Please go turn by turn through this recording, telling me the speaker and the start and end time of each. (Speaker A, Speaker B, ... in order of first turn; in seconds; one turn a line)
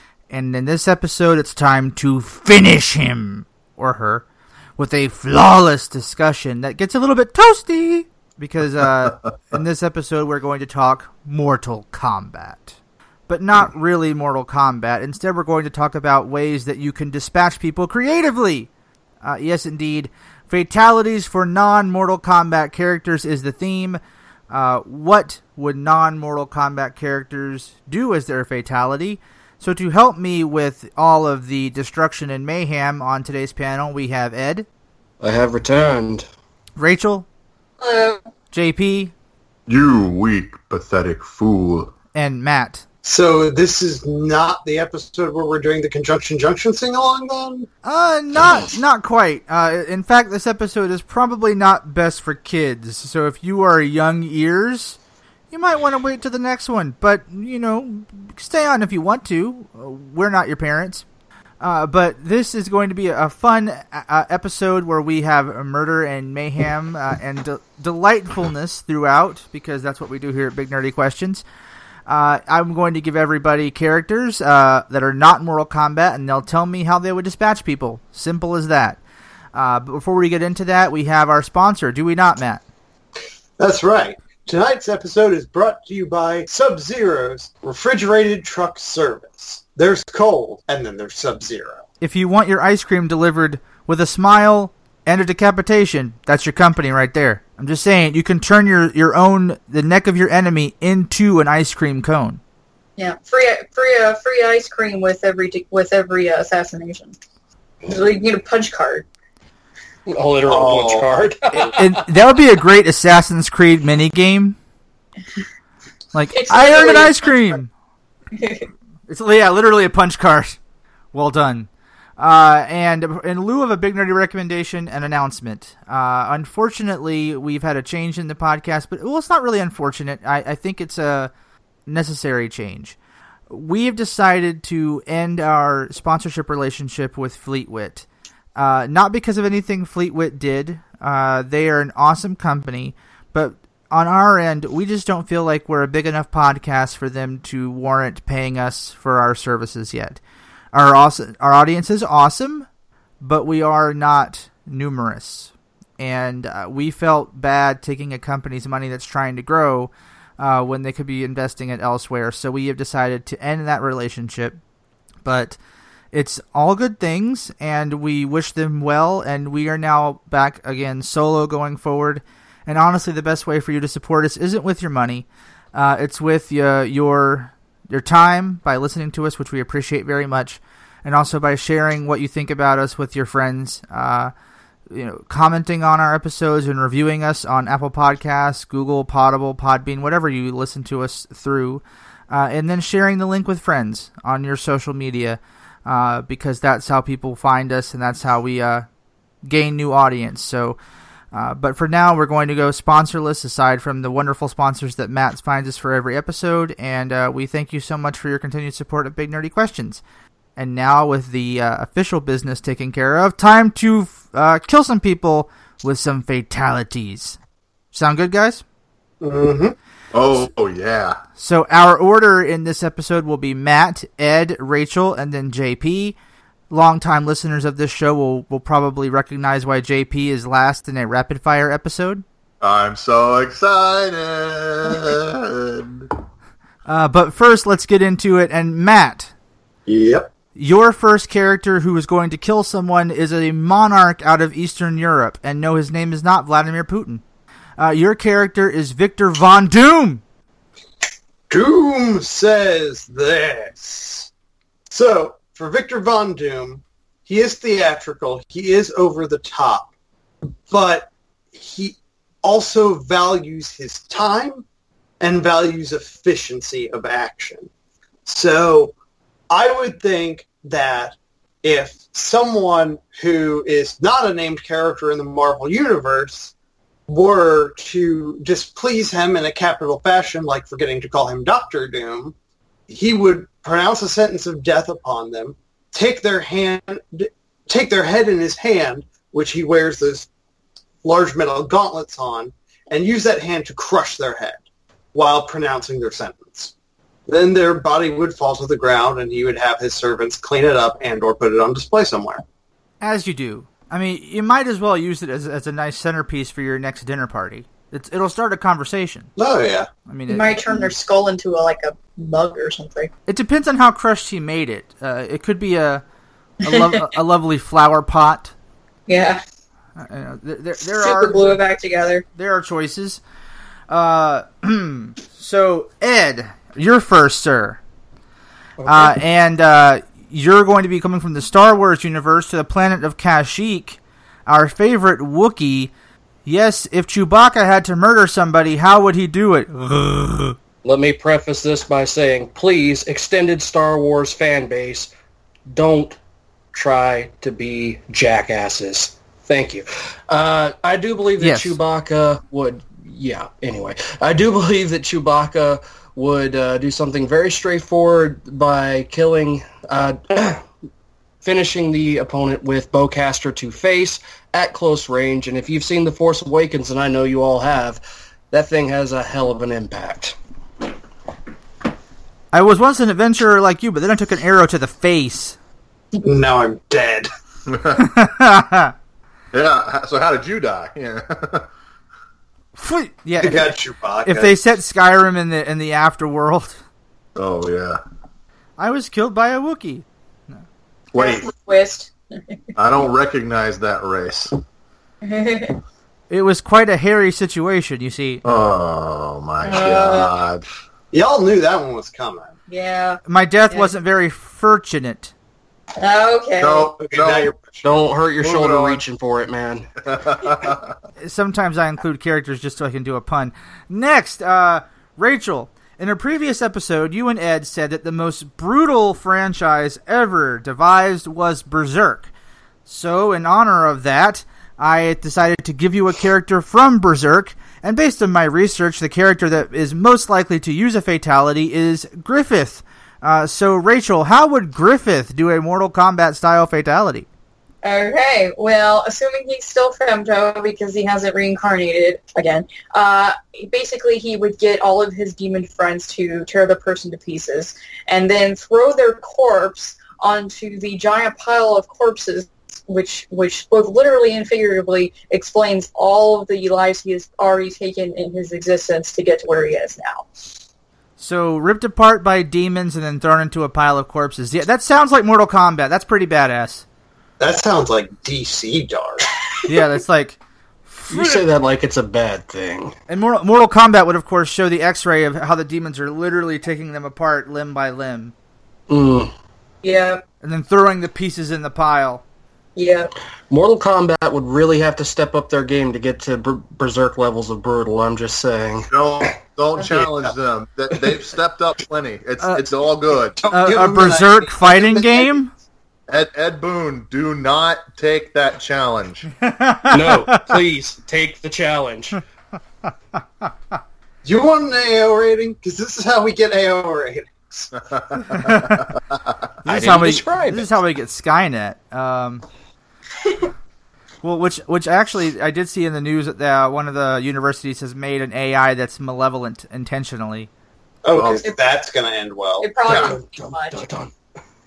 Speaker A: 0.3-4.2
Speaker A: 4.8-12.8
Speaker A: 13.3-18.7
Speaker A: 19.2-34.6
Speaker B: 35.2-36.2
Speaker A: 36.8-37.3
Speaker C: 37.8-38.2
Speaker A: 38.5-39.1
Speaker D: 39.7-41.9
Speaker A: 42.1-42.8
Speaker E: 43.0-47.7
Speaker A: 47.8-55.0
Speaker A: 55.5-61.0
Speaker A: 61.6-71.4
Speaker A: 72.1-79.0
Speaker A: 79.5-82.6
Speaker E: 83.6-91.8
Speaker A: 92.0-102.4
Speaker C: 103.0-107.1
Speaker C: 107.8-109.0
Speaker B: 110.1-111.9
Speaker E: 110.5-111.8
Speaker A: 111.8-114.6
Speaker A: 116.1-117.7
Speaker C: 116.3-117.5
Speaker C: 118.3-118.7
Speaker A: 119.1-120.6
Speaker A: 121.1-131.3
Speaker A: 131.8-133.0
Speaker A: 133.5-150.2
Speaker A: 150.7-152.7
Speaker A: 153.2-164.6
Speaker A: 165.2-165.6
Speaker A: 166.1-184.3
Speaker A: 184.9-198.9
Speaker A: 199.4-200.8
Speaker A: 201.3-210.0
Speaker A: 210.6-217.4
Speaker A: 217.9-218.6
Speaker E: 219.2-219.8
Speaker D: 220.1-221.2
Speaker A: 221.3-226.2
Speaker A: 226.7-232.2
Speaker D: 232.6-236.1
Speaker A: 236.8-239.3
Speaker E: 239.9-240.3
Speaker A: 240.5-247.2
Speaker A: 247.8-250.2
Speaker E: 251.5-254.3
Speaker E: 254.9-259.9
Speaker E: 260.7-264.6
Speaker E: 265.2-267.7
Speaker E: 268.2-268.9
Speaker E: 269.5-276.5
Speaker E: 277.1-282.3
Speaker E: 282.9-290.3
Speaker E: 291.0-294.6
Speaker E: 295.1-296.7
Speaker E: 297.3-302.4
Speaker A: 303.0-309.3
Speaker E: 309.4-309.9
Speaker A: 310.1-310.6
Speaker C: 310.3-313.1
Speaker A: 313.3-316.0
Speaker A: 316.6-318.5
Speaker C: 316.6-317.0
Speaker C: 319.1-319.4
Speaker A: 320.0-321.6
Speaker C: 320.9-322.2
Speaker A: 322.4-323.2
Speaker A: 323.9-327.8
Speaker B: 328.8-329.1
Speaker A: 328.9-335.9
Speaker A: 336.4-340.6
Speaker B: 340.8-345.1
Speaker B: 345.7-346.2
Speaker B: 346.7-360.6
Speaker A: 351.4-351.8
Speaker B: 361.4-368.0
Speaker B: 368.5-370.3
Speaker A: 372.5-375.6
Speaker E: 376.2-377.3
Speaker D: 377.7-378.1
Speaker A: 378.0-378.9
Speaker D: 379.5-381.7
Speaker A: 382.8-386.8
Speaker E: 383.4-384.6
Speaker D: 387.4-388.0
Speaker A: 388.8-390.6
Speaker D: 391.1-391.5
Speaker C: 391.1-392.6
Speaker D: 392.8-394.6
Speaker C: 395.2-395.8
Speaker A: 396.3-398.4
Speaker D: 398.4-400.6
Speaker C: 399.6-400.3
Speaker E: 401.1-402.5
Speaker C: 402.7-403.9
Speaker A: 403.2-405.3
Speaker C: 406.0-406.9
Speaker D: 406.6-407.5
Speaker E: 407.0-407.8
Speaker B: 407.8-409.9
Speaker D: 408.4-409.0
Speaker D: 410.1-410.9
Speaker A: 411.2-422.3
Speaker A: 422.9-437.3
Speaker C: 437.8-460.3
Speaker A: 461.2-466.8
Speaker E: 467.4-469.3
Speaker A: 469.6-471.4
Speaker B: 471.1-472.9
Speaker A: 473.1-478.3
Speaker B: 478.9-479.3
Speaker C: 479.8-480.2
Speaker A: 480.4-482.2
Speaker C: 482.8-483.1
Speaker B: 483.5-488.9
Speaker D: 488.9-493.4
Speaker E: 489.9-490.3
Speaker A: 492.4-492.6
Speaker E: 493.5-495.4
Speaker A: 493.5-495.5
Speaker D: 496.1-499.3
Speaker A: 499.4-500.5
Speaker B: 499.9-502.2
Speaker E: 504.2-507.8
Speaker D: 507.9-509.3
Speaker A: 508.3-508.7
Speaker A: 509.6-512.4
Speaker B: 509.6-510.7
Speaker A: 514.2-520.5
Speaker E: 521.0-522.7
Speaker D: 521.1-521.4
Speaker C: 522.6-523.8
Speaker B: 522.9-524.1
Speaker D: 522.9-523.1